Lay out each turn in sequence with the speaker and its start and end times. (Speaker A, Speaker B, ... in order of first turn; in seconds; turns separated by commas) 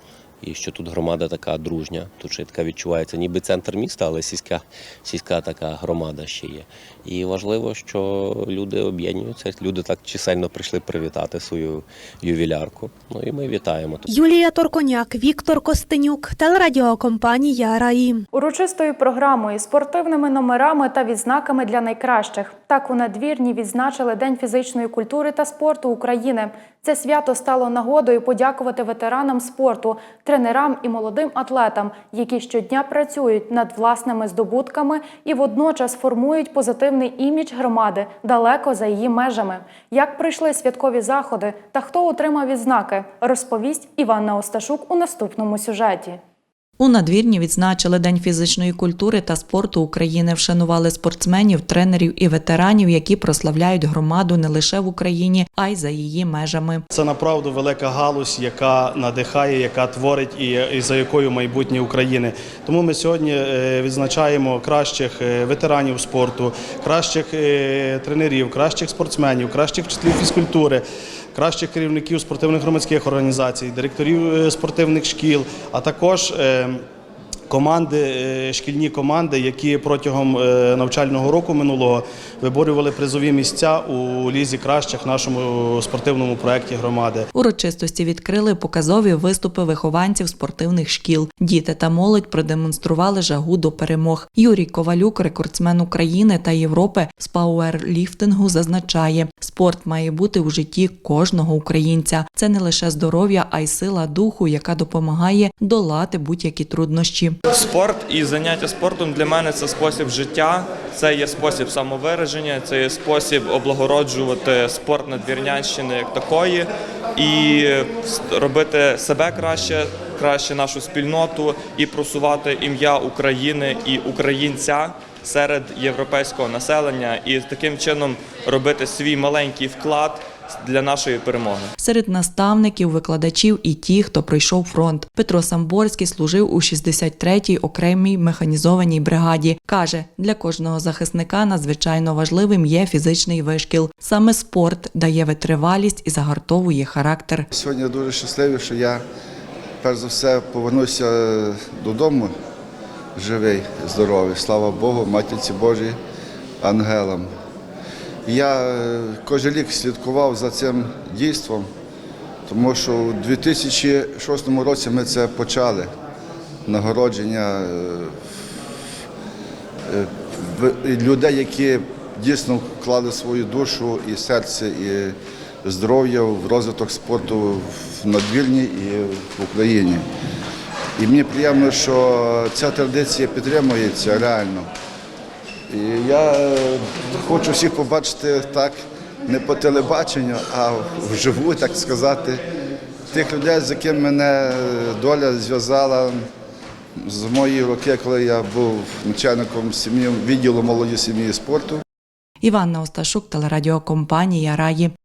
Speaker A: 0.4-14.1, Speaker B: 14.1-18.2, Speaker C: 18.3-46.2, Speaker D: 46.8-56.8, Speaker E: 56.9-70.8, Speaker E: 71.3-76.8, Speaker E: 77.5-87.3, Speaker D: 87.3-107.4, Speaker F: 107.5-131.7, Speaker D: 131.8-147.5, Speaker G: 147.5-149.0, Speaker G: 149.8-152.3, Speaker G: 153.2-156.0, Speaker G: 156.6-157.3, Speaker G: 158.3-161.7, Speaker G: 162.5-165.9, Speaker G: 166.7-168.2, Speaker G: 169.9-180.1, Speaker G: 181.0-184.7, Speaker G: 185.7-192.4, Speaker G: 193.1-196.2, Speaker G: 197.0-201.8, Speaker D: 202.4-204.9